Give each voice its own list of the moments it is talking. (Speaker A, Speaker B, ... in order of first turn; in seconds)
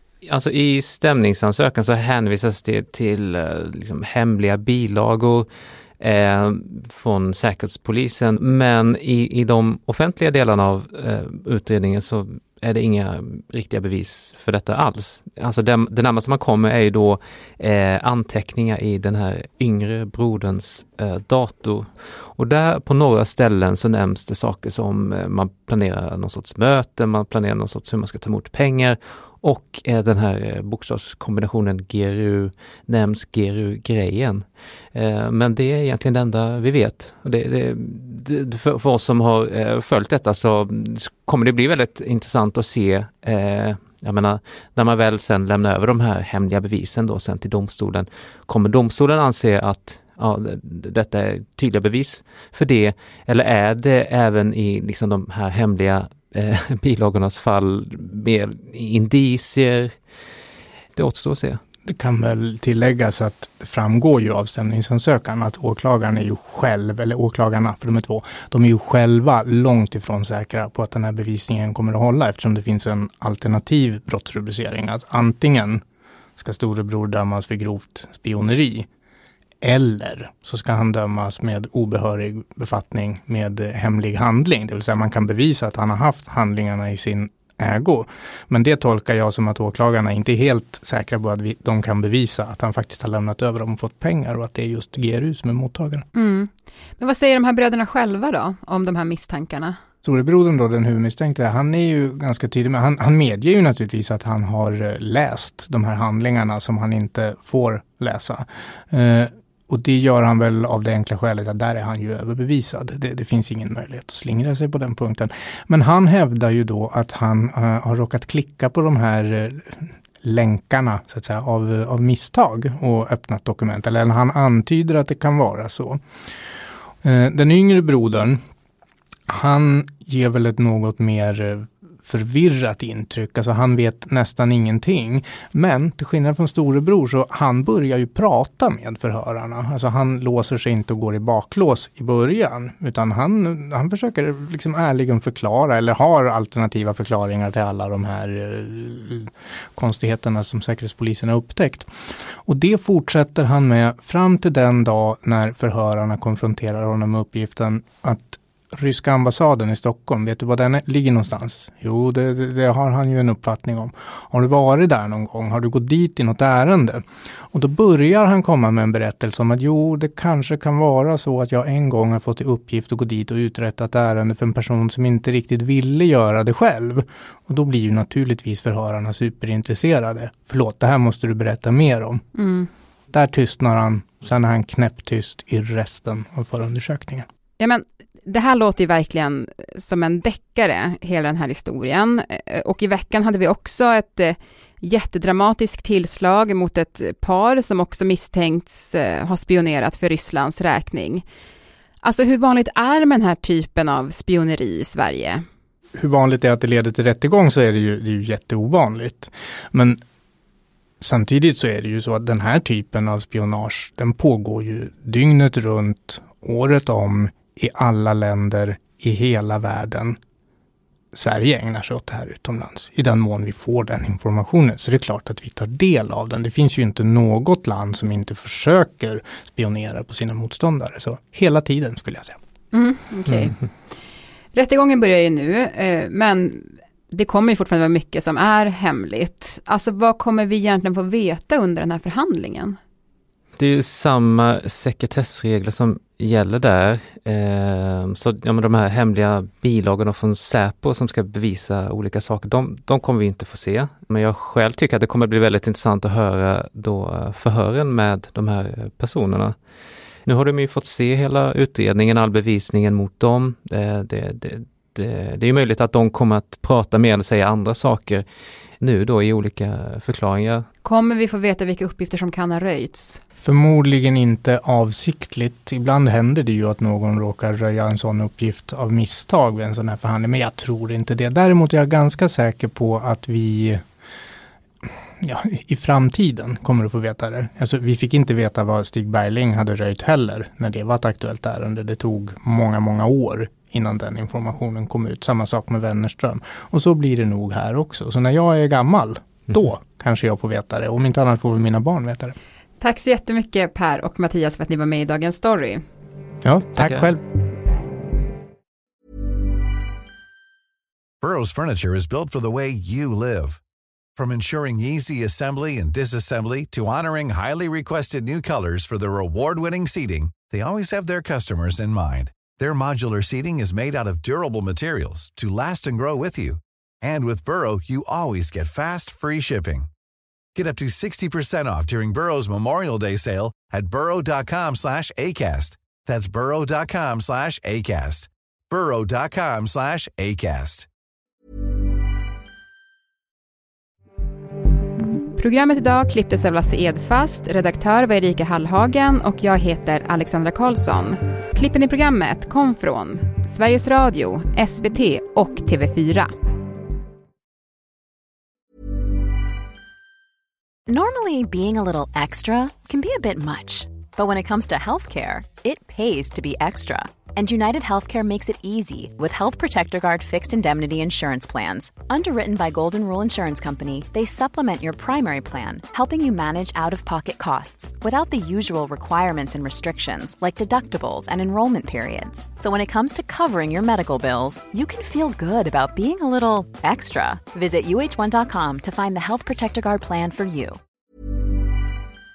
Speaker A: 0.2-5.5, 6.0-59.9, 61.0-61.6, 243.6-259.5, 260.2-268.2, 268.8-270.7, 306.8-307.1
Speaker B: 61.9-75.8, 76.4-78.9, 79.6-96.0, 100.0-126.0, 127.0-128.4, 129.3-151.9, 152.4-182.2, 183.1-187.2, 205.9-210.0, 211.0-220.2, 221.1-232.4, 273.4-283.8, 285.2-302.3, 306.4-307.2
Speaker C: 96.1-99.8, 182.3-182.7, 187.6-201.2, 202.0-205.4, 232.7-233.6, 234.5-242.8, 270.8-273.2, 302.8-305.8, 345.3-356.3
Speaker D: 311.2-313.6, 314.1-329.9, 330.5-340.9
Speaker E: 360.9-390.8